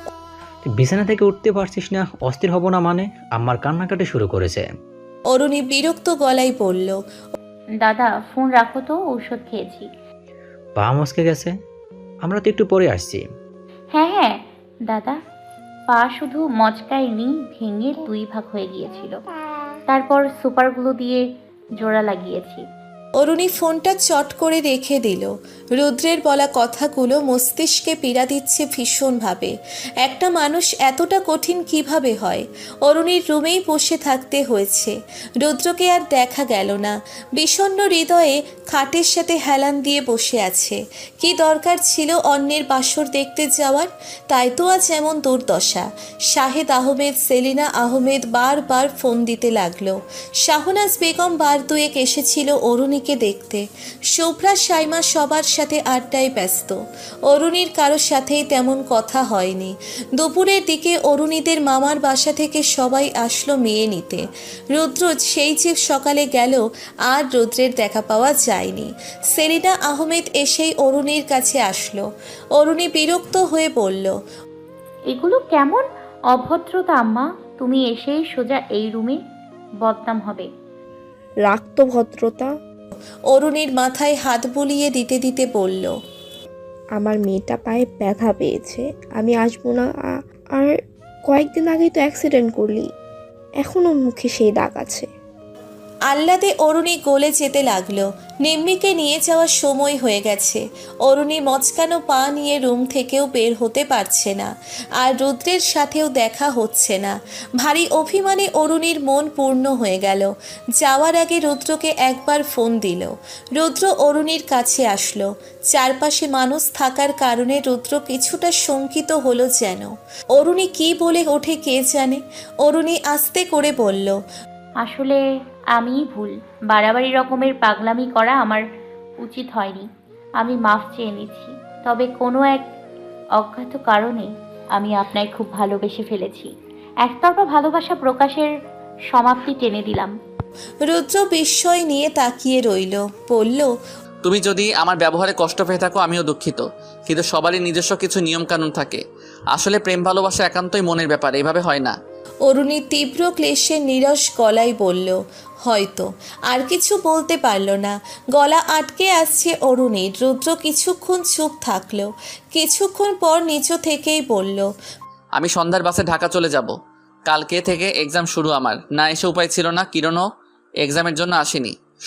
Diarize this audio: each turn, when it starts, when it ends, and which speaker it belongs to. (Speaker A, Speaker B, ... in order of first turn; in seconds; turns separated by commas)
Speaker A: 0.8-4.7, Speaker B: 5.3-7.0, Speaker C: 7.8-9.9, Speaker A: 10.8-11.5, Speaker A: 12.2-13.2, Speaker C: 13.9-14.3, Speaker C: 14.9-15.2, Speaker C: 15.9-19.2, Speaker C: 19.9-21.2, Speaker C: 21.8-22.6, Speaker B: 23.2-74.2, Speaker C: 75.1-79.2, Speaker C: 79.8-80.5, Speaker D: 81.4-82.5, Speaker B: 83.3-86.0, Speaker D: 87.0-90.8, Speaker D: 91.3-92.9, Speaker D: 93.6-95.1, Speaker B: 96.1-124.2, Speaker C: 124.8-125.2, Speaker C: 125.8-128.6, Speaker C: 129.2-129.8, Speaker C: 130.4-132.6, Speaker C: 133.4-136.5, Speaker C: 137.1-138.5, Speaker C: 139.1-140.1, Speaker B: 140.8-143.7, Speaker E: 144.2-151.9, Speaker B: 152.4-164.7, Speaker E: 165.4-166.7, Speaker E: 167.3-170.3, Speaker E: 170.8-171.8